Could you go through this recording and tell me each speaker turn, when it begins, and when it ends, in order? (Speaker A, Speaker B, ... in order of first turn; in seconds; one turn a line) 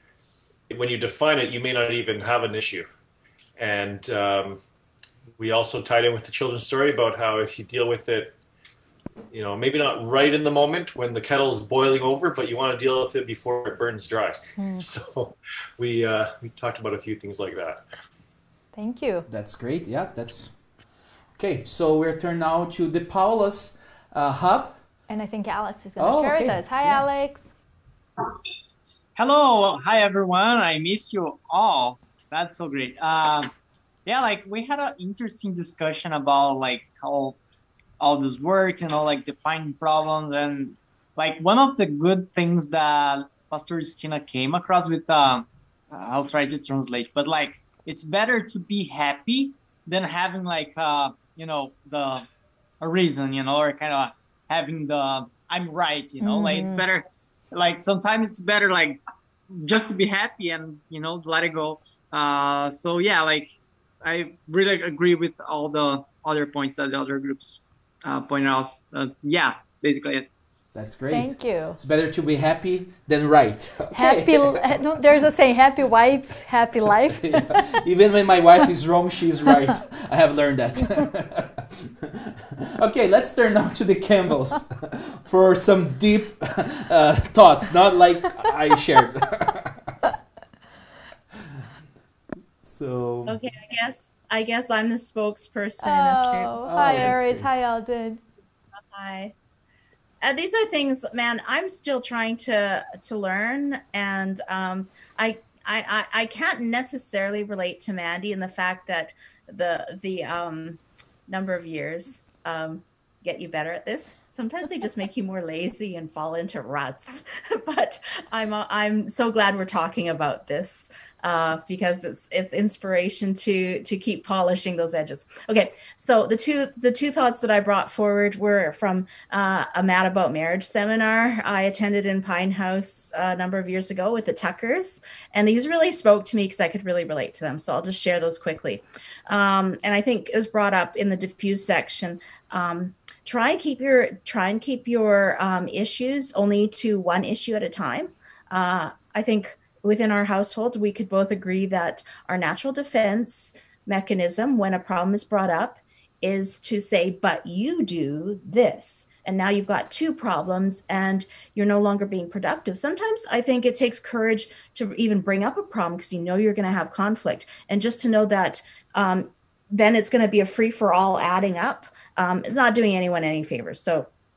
Speaker A: 0.7-2.9
Speaker A: 3.6-4.6
Speaker A: 5.4-8.3
Speaker A: 9.3-17.8
Speaker B: 14.6-14.8
Speaker B: 18.7-19.2
Speaker C: 19.3-20.5
Speaker C: 21.4-24.8
Speaker B: 25.1-27.5
Speaker C: 26.0-27.0
Speaker D: 29.1-33.5
Speaker D: 34.0-37.4
Speaker D: 38.0-52.2
Speaker D: 52.8-59.0
Speaker B: 56.2-56.8
Speaker D: 59.5-63.5
Speaker D: 64.0-70.3
Speaker C: 70.7-74.7
Speaker B: 71.1-71.8
Speaker B: 73.9-77.5
Speaker C: 77.1-89.8
Speaker C: 92.6-93.4
Speaker E: 93.3-97.0
Speaker B: 95.8-98.2
Speaker C: 96.6-97.5
Speaker E: 98.9-99.3
Speaker E: 100.2-174.1